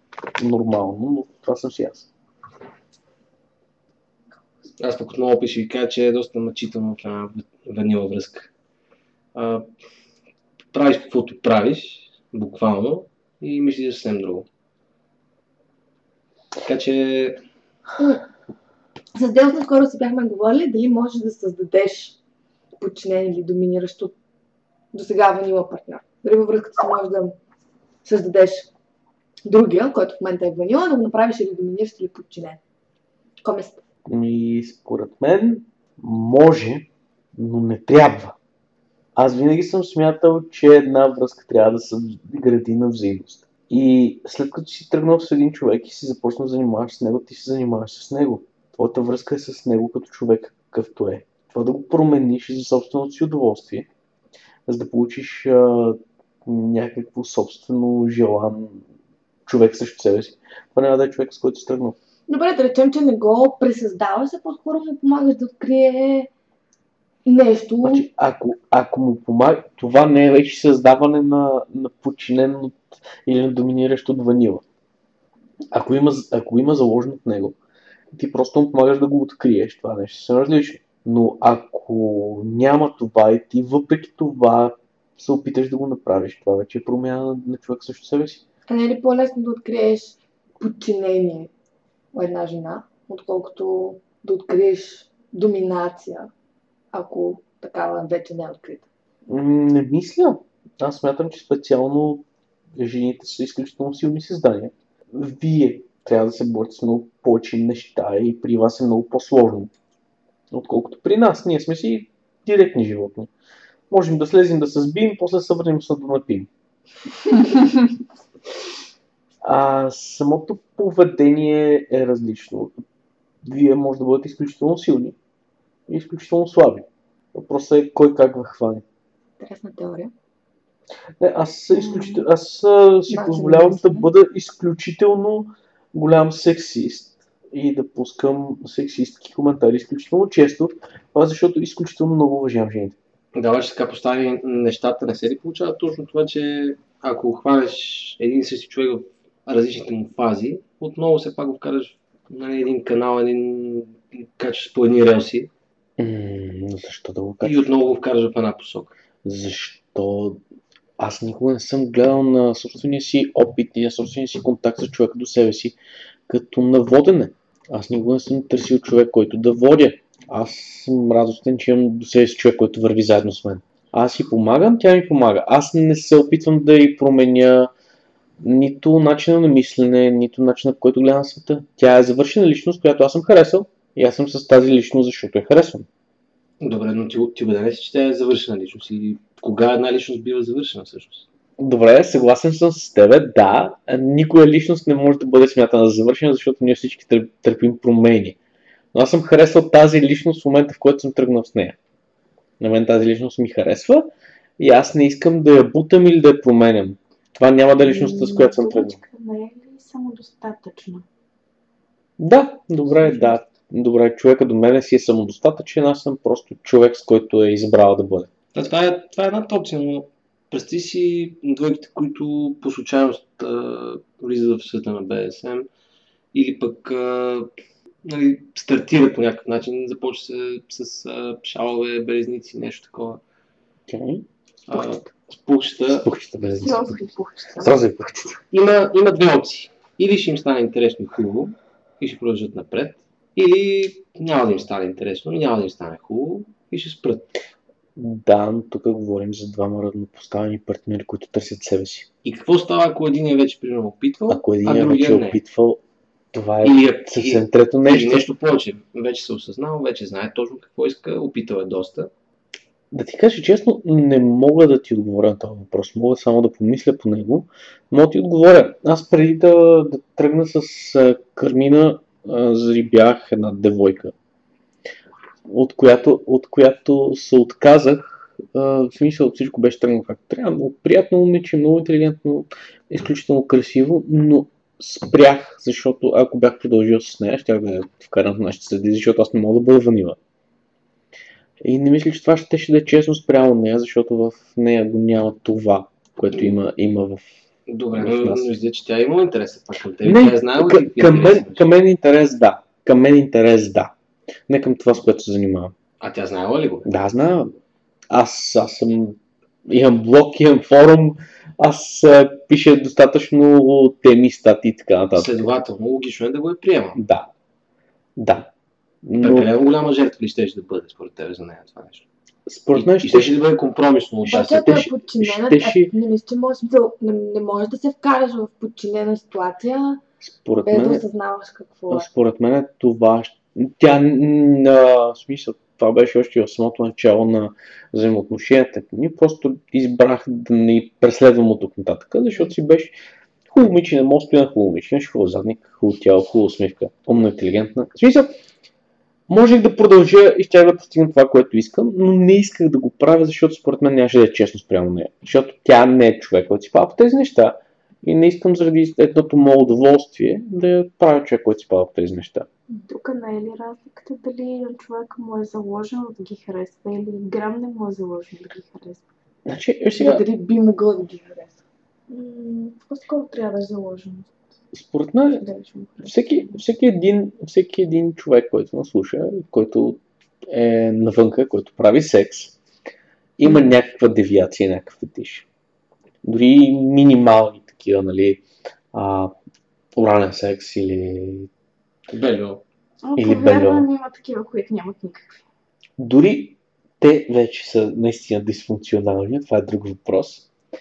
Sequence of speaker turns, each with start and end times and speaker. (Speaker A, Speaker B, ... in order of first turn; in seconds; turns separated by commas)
Speaker A: 0.4-2.1, Speaker B: 4.8-8.5, Speaker B: 9.3-9.7, Speaker B: 10.7-14.5, Speaker B: 16.6-17.4, Speaker C: 19.1-22.2, Speaker C: 22.8-24.1, Speaker C: 24.9-27.4, Speaker C: 28.1-28.7, Speaker C: 29.4-32.6, Speaker C: 33.4-33.8, Speaker A: 34.1-38.4, Speaker A: 39.2-53.9, Speaker A: 54.7-58.8, Speaker A: 59.5-62.0, Speaker C: 62.3-66.3, Speaker C: 67.2-68.1, Speaker A: 67.8-74.6, Speaker A: 75.7-77.6, Speaker A: 78.1-88.4, Speaker C: 88.7-91.5, Speaker C: 92.1-96.3, Speaker C: 96.9-98.9, Speaker A: 99.3-102.2, Speaker A: 102.8-109.7, Speaker A: 110.5-113.3, Speaker A: 113.9-116.5, Speaker A: 119.4-122.7, Speaker A: 123.4-125.2, Speaker A: 125.9-128.8, Speaker C: 129.4-130.1, Speaker A: 131.2-143.0, Speaker C: 131.7-132.2, Speaker C: 133.1-134.1, Speaker B: 143.3-155.5, Speaker A: 156.0-157.7, Speaker B: 157.4-158.9, Speaker A: 159.2-160.4, Speaker A: 161.0-165.8, Speaker A: 166.3-177.7, Speaker A: 178.4-185.9, Speaker B: 186.6-191.3, Speaker A: 191.6-198.4, Speaker A: 198.9-201.8, Speaker A: 202.6-209.0, Speaker D: 207.8-211.1, Speaker A: 212.2-218.3, Speaker D: 213.0-213.3, Speaker B: 218.5-225.7, Speaker B: 226.3-227.5, Speaker B: 228.1-233.2, Speaker A: 233.9-234.3, Speaker B: 234.7-236.1, Speaker A: 235.9-237.0, Speaker D: 236.5-237.8, Speaker A: 237.6-238.4, Speaker B: 238.5-247.3, Speaker A: 248.0-252.1, Speaker B: 252.2-255.4, Speaker A: 254.3-255.8, Speaker A: 256.3-258.3, Speaker B: 256.6-262.1, Speaker A: 262.9-274.1, Speaker A: 275.5-290.2, Speaker A: 291.6-297.3, Speaker B: 297.7-301.8, Speaker A: 298.0-298.5, Speaker A: 300.1-303.9, Speaker A: 304.5-305.8, Speaker B: 306.0-306.9, Speaker A: 306.9-307.6, Speaker A: 308.1-315.4, Speaker B: 315.1-317.0, Speaker A: 316.9-317.3, Speaker A: 318.2-318.5, Speaker A: 319.0-319.5, Speaker B: 319.2-322.1, Speaker A: 322.5-323.4, Speaker B: 322.7-324.8, Speaker A: 324.2-325.9, Speaker C: 324.3-330.0, Speaker A: 330.2-331.0, Speaker C: 330.6-332.1, Speaker A: 331.9-342.9, Speaker A: 343.5-348.3, Speaker A: 349.3-362.5, Speaker D: 362.9-369.0, Speaker A: 369.5-370.2, Speaker C: 369.9-371.6, Speaker D: 372.1-374.3, Speaker A: 374.7-375.5, Speaker D: 375.3-376.6, Speaker A: 376.0-382.6, Speaker A: 383.4-385.5, Speaker A: 386.2-389.4, Speaker A: 389.9-391.5, Speaker B: 392.1-392.6, Speaker D: 393.0-395.4, Speaker A: 393.2-393.9, Speaker A: 396.0-400.5